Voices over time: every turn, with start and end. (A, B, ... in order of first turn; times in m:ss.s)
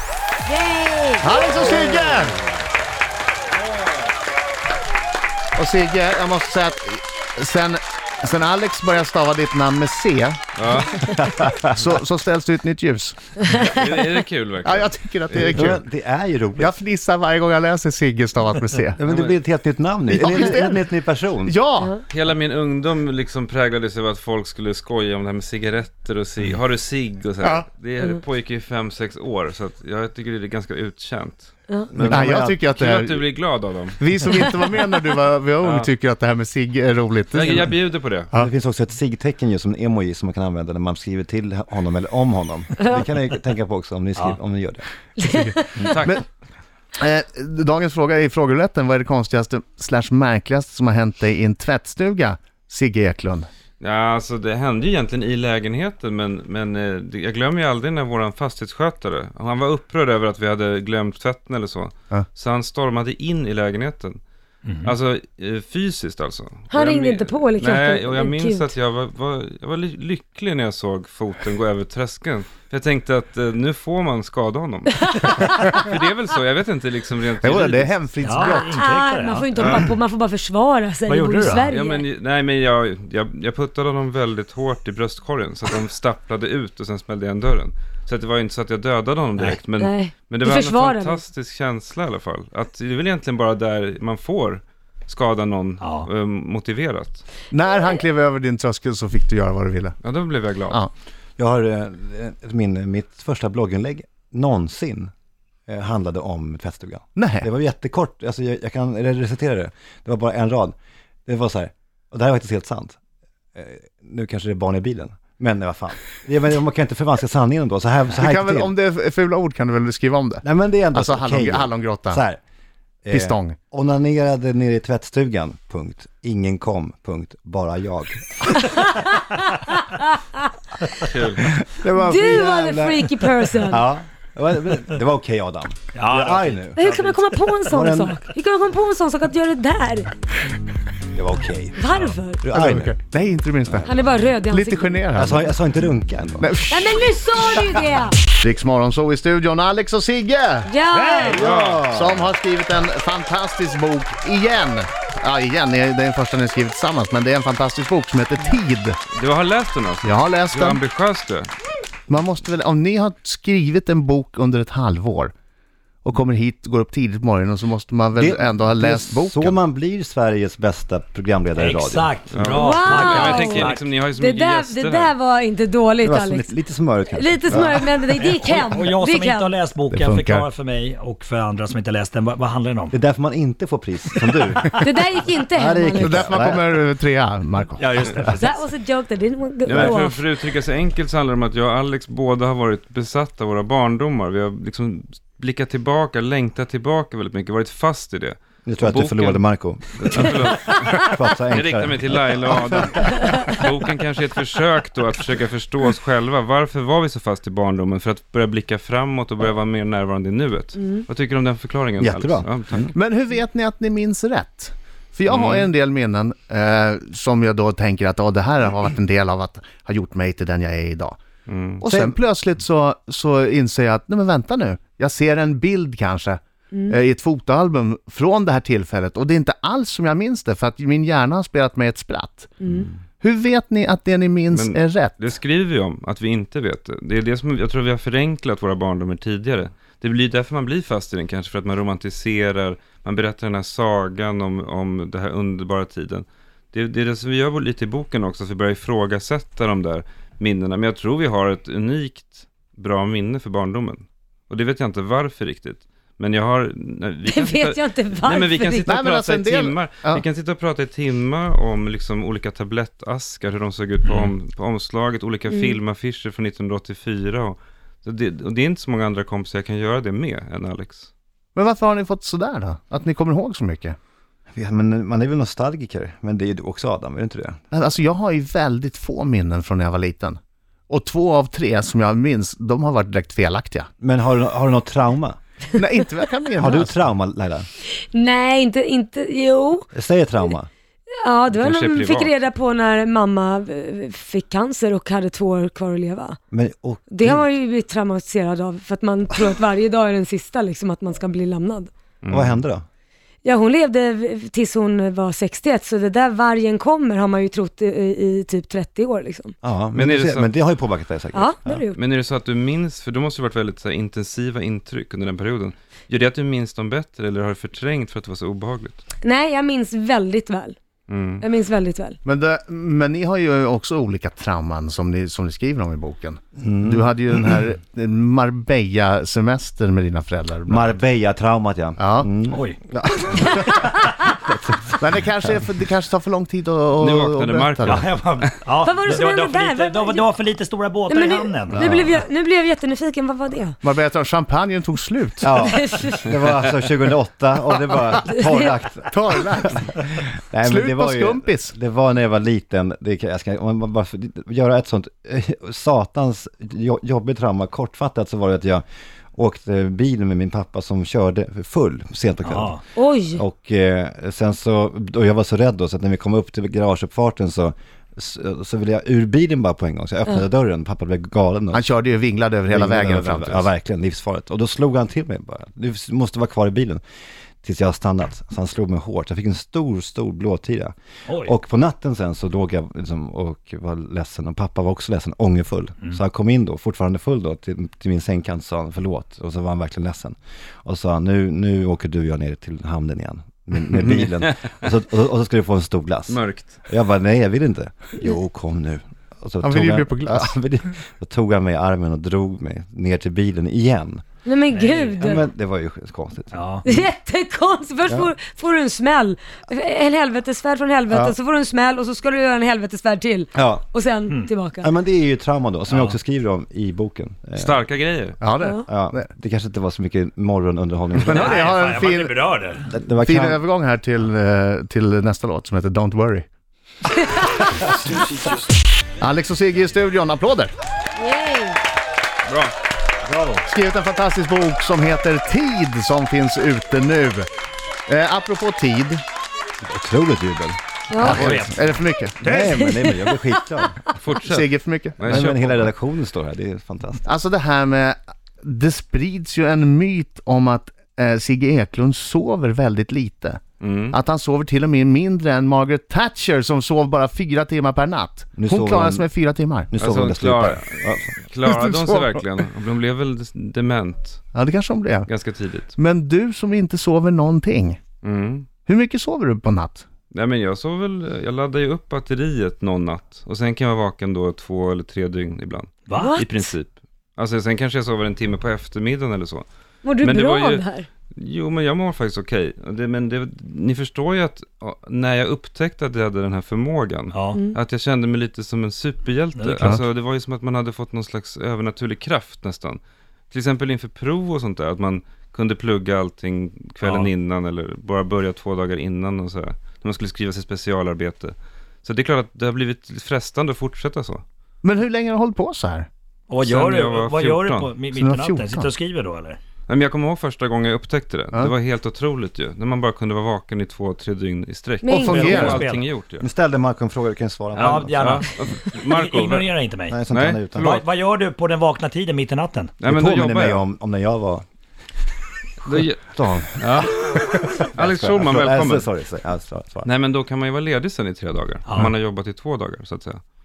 0:00.4-0:01.4 A
0:01.2-0:02.4 B
0:05.5-0:10.4 B
0:10.6-0:11.2 C
0:11.0-0:11.8 D
0:11.7-0:13.5 B
0:13.4-0:15.6 C
0:14.6-0:15.8 B
0:15.4-0:16.7 D
0:16.6-0:19.0 B
0:19.0-0:21.6 D
0:19.0-0:19.4 C
0:20.1-0:20.8 B
0:21.4-0:21.9 B
0:22.1-0:34.5 C
0:32.0-0:33.3 B
0:34.0-0:37.7 B
0:35.6-0:35.9 C
0:37.3-0:38.3 C
0:38.3-0:44.8 D
0:45.2-0:46.0 A
0:45.9-0:46.2 C
0:47.0-0:53.5 B
0:53.8-1:04.2 C
1:04.7-1:04.9 E
1:04.8-1:18.0 C
1:06.7-1:08.7 A
1:17.4-1:18.6 B
1:18.2-1:19.5 E
1:18.4-1:22.0 A
1:19.6-1:19.9 C
1:21.1-1:21.7 E
1:21.7-1:37.2 C
1:29.8-1:31.2 A
1:35.8-1:36.1 E
1:37.5-1:40.0 B
1:40.0-1:40.8 C
1:41.4-1:45.1 D
1:45.7-1:50.7 D
1:47.2-1:47.4 B
1:51.2-1:53.0 D
1:53.5-1:58.7 D
1:58.1-2:02.2 B
2:00.4-2:02.4 D
2:03.0-2:08.6 D
2:03.1-2:03.6 B
2:08.6-2:10.0 A
2:11.0-2:11.5 C
2:11.4-2:16.8 D
2:11.9-2:13.8 A
2:16.0-2:17.0 E
2:16.7-2:20.1 A
2:17.7-2:18.2 D
2:21.1-2:22.9 D
2:21.8-2:22.4 A
2:22.5-2:23.9 B
2:23.8-2:25.0 A
2:24.5-2:25.4 B
2:25.1-2:26.5 D
2:26.4-2:27.0 B
2:26.7-2:28.2 A
2:28.4-2:30.7 B
2:30.6-2:31.4 A
2:30.9-2:31.4 E
2:31.2-2:32.3 D
2:31.3-2:31.9 C
2:31.9-2:39.0 B
2:39.1-2:41.5 C
2:40.0-2:40.8 B
2:42.1-2:45.3 B
2:46.0-2:49.6 B
2:48.1-2:52.1 D
2:51.6-2:53.8 E
2:52.3-2:55.1 C
2:52.5-2:56.5 A
2:56.0-2:58.0 D
2:57.0-2:59.6 A
2:58.4-3:02.9 E
2:59.9-3:00.5 B
3:02.9-3:04.8 D
3:04.8-3:06.3 A
3:05.5-3:06.8 D
3:06.0-3:07.9 B
3:07.8-3:08.6 E
3:08.3-3:10.2 A
3:09.6-3:19.4 C
3:09.7-3:10.0 D
3:18.6-3:23.4 D
3:20.0-3:32.9 C
3:32.0-3:32.9 D
3:32.9-3:41.2 B
3:35.3-3:35.7 C
3:41.4-3:41.8 C
3:41.8-3:52.6 B
3:41.8-3:42.2 D
3:52.6-3:52.9 A
3:53.2-3:55.2 B
3:54.5-4:31.1 C
4:17.3-4:18.9 A
4:18.8-4:20.2 B
4:25.5-4:25.8 A
4:31.5-4:34.0 B
4:34.5-4:37.6 D
4:37.7-4:43.9 B
4:44.0-4:45.4 D
4:45.8-4:47.0 B
4:46.6-4:47.7 D
4:48.0-4:49.9 A
4:49.9-4:50.7 D
4:51.2-4:56.4 A
4:51.5-4:52.3 C
4:56.5-4:57.5 D
4:57.1-5:01.9 A
5:02.2-5:02.6 C
5:02.3-5:02.8 D
5:03.4-5:09.6 A
5:09.6-5:11.8 D
5:09.9-5:10.5 C
5:11.3-5:12.0 A
5:11.9-5:19.0 C
5:19.2-5:20.8 A
5:21.1-5:21.4 C
5:21.4-5:22.2 A
5:22.2-5:31.0 B
5:26.6-5:27.1 D
5:30.7-5:35.6 D
5:32.0-5:32.4 B
5:32.5-5:32.8 E
5:35.0-5:38.1 B
5:37.0-5:38.5 C
5:37.9-5:41.9 E
5:38.8-5:40.4 A
5:41.1-5:43.8 A
5:41.7-5:42.2 D
5:43.8-5:45.5 B
5:45.4-5:58.8 D
5:45.5-5:46.3 A
5:49.1-5:50.0 B
5:50.6-5:51.7 B
5:59.3-6:02.8 D
6:02.4-6:02.8 E
6:02.9-6:03.4 A
6:03.3-6:12.0 D
6:11.7-6:13.7 B
6:12.7-6:17.0 D
6:17.6-6:44.2 D
6:34.0-6:34.5 C
6:36.3-6:36.8 C
6:39.6-6:40.5 B
6:44.4-6:45.5 A
6:44.7-6:45.1 E
6:45.2-6:47.0 D
6:46.5-6:46.8 E
6:46.8-6:54.9 A
6:48.1-6:48.3 D
6:53.5-6:53.8 D
6:54.8-6:57.8 D
6:55.9-6:56.1 E
6:57.6-6:58.4 C
6:58.4-6:58.8 B
6:58.9-7:01.8 D
7:01.2-7:02.4 B
7:01.3-7:01.7 C
7:01.3-7:02.8 E
7:02.8-7:03.6 D
7:03.2-7:06.4 B
7:09.2-7:10.7 B
7:11.2-7:11.8 A
7:12.5-7:12.7 C
7:13.3-7:17.5 B
7:18.1-7:19.2 B
7:19.8-7:21.6 D
7:21.1-7:21.6 A
7:21.2-7:22.4 B
7:21.4-7:21.7 E
7:22.4-7:24.0 D
7:22.4-7:22.9 E
7:22.5-7:23.9 A
7:24.2-7:25.9 C
7:24.5-7:25.5 B
7:25.2-7:27.3 D
7:27.2-7:39.9 B
7:33.8-7:34.2 C
7:38.5-7:39.3 D
7:39.9-7:41.3 D
7:40.0-7:44.4 C
7:41.6-7:42.4 B
7:44.5-7:45.3 B
7:45.3-7:45.9 C
7:46.0-7:48.0 B
7:48.2-7:48.7 C
7:48.9-7:50.0 B
7:50.3-7:59.6 C
7:56.1-7:56.4 E
7:56.2-7:56.7 A
8:00.0-8:01.1 A
8:00.2-8:24.4 C
8:07.3-8:07.6 E
8:09.6-8:09.9 E
8:17.0-8:17.3 E
8:24.8-8:26.1 B
8:26.5-8:29.6 E
8:26.6-8:28.0 C
8:28.1-8:28.9 B
8:29.9-8:36.4 C
8:35.0-8:35.7 A
8:35.1-8:35.8 B
8:35.3-8:36.0 E
8:36.4-8:38.4 D
8:37.7-8:41.0 C
8:37.8-8:38.5 E
8:39.0-8:40.1 E
8:40.1-8:41.0 D
8:40.8-8:42.9 E
8:43.0-8:43.8 C
8:43.0-8:44.6 D
8:45.8-8:49.0 C
8:45.9-8:50.1 D
8:50.0-8:53.4 C
8:51.8-8:52.1 E